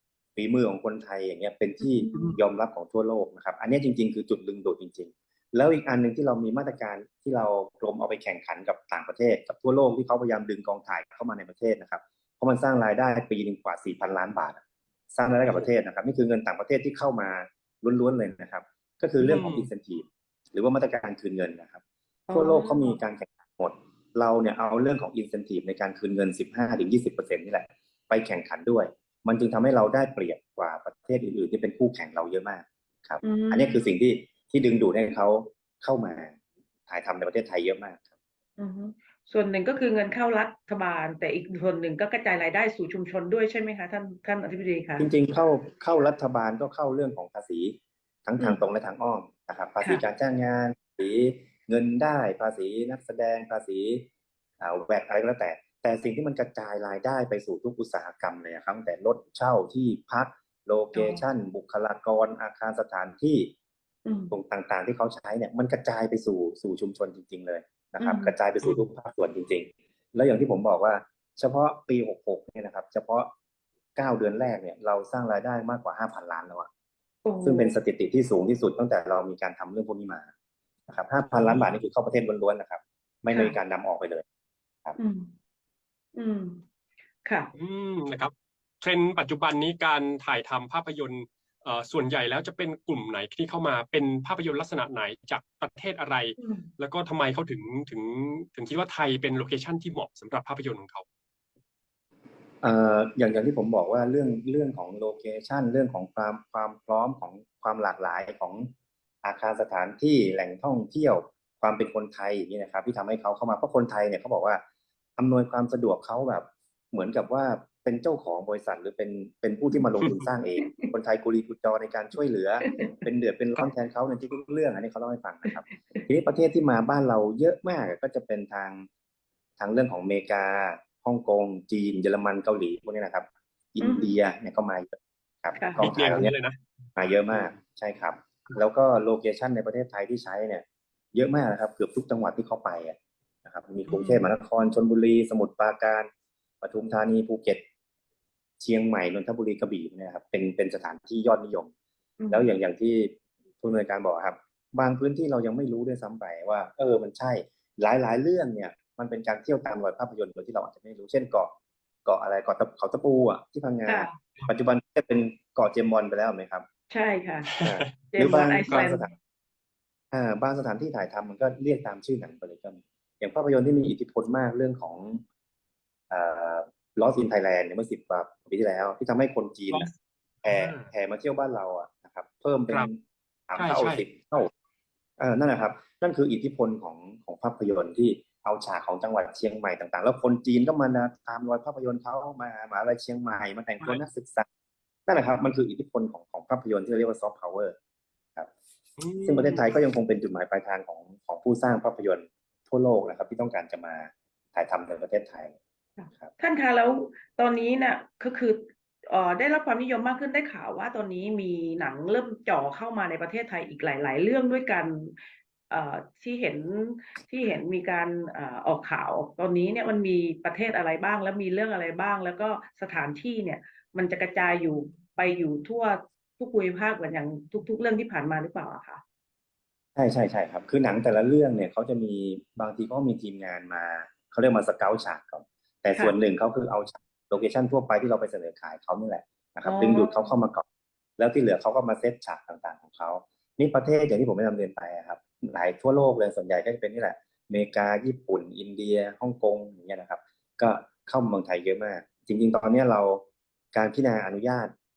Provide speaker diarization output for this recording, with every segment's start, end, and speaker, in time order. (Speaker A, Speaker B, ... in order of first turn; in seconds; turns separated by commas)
Speaker A: 0.4-36.4, Speaker B: 1.8-2.4, Speaker C: 19.2-19.7, Speaker B: 22.3-23.0, Speaker B: 33.2-33.9, Speaker A: 36.9-38.1, Speaker B: 38.6-45.1, Speaker A: 45.0-54.1, Speaker A: 54.6-63.5, Speaker B: 60.9-61.2, Speaker B: 64.0-64.3, Speaker A: 64.3-73.3, Speaker B: 68.0-68.3, Speaker A: 74.0-76.7, Speaker B: 77.2-77.8, Speaker A: 77.4-80.3, Speaker A: 80.9-84.2, Speaker C: 81.3-81.7, Speaker B: 85.0-85.3, Speaker B: 86.1-86.6, Speaker B: 87.2-87.5, Speaker C: 87.5-101.0, Speaker B: 96.4-96.7, Speaker A: 102.6-108.7, Speaker A: 109.2-114.6, Speaker A: 115.2-128.9, Speaker B: 120.6-120.9, Speaker B: 122.6-122.9, Speaker A: 129.6-136.3, Speaker B: 133.8-134.2, Speaker B: 135.6-135.9, Speaker C: 135.8-136.6, Speaker A: 137.0-146.1, Speaker C: 143.9-144.3, Speaker A: 146.6-147.6, Speaker A: 148.6-151.7, Speaker B: 152.2-152.5, Speaker A: 152.3-161.5, Speaker A: 162.1-166.7, Speaker B: 163.9-164.2, Speaker B: 166.9-167.5, Speaker C: 167.6-167.8, Speaker A: 167.6-169.1, Speaker B: 168.1-169.1, Speaker A: 170.1-175.2, Speaker A: 176.1-179.9, Speaker A: 180.4-184.5, Speaker C: 180.4-180.9, Speaker C: 183.6-184.0, Speaker A: 185.2-194.5, Speaker A: 195.1-197.8, Speaker C: 199.0-199.6, Speaker A: 199.2-205.6, Speaker B: 206.0-215.2, Speaker B: 215.7-229.0, Speaker A: 230.0-240.6, Speaker B: 239.6-240.3, Speaker A: 241.2-254.7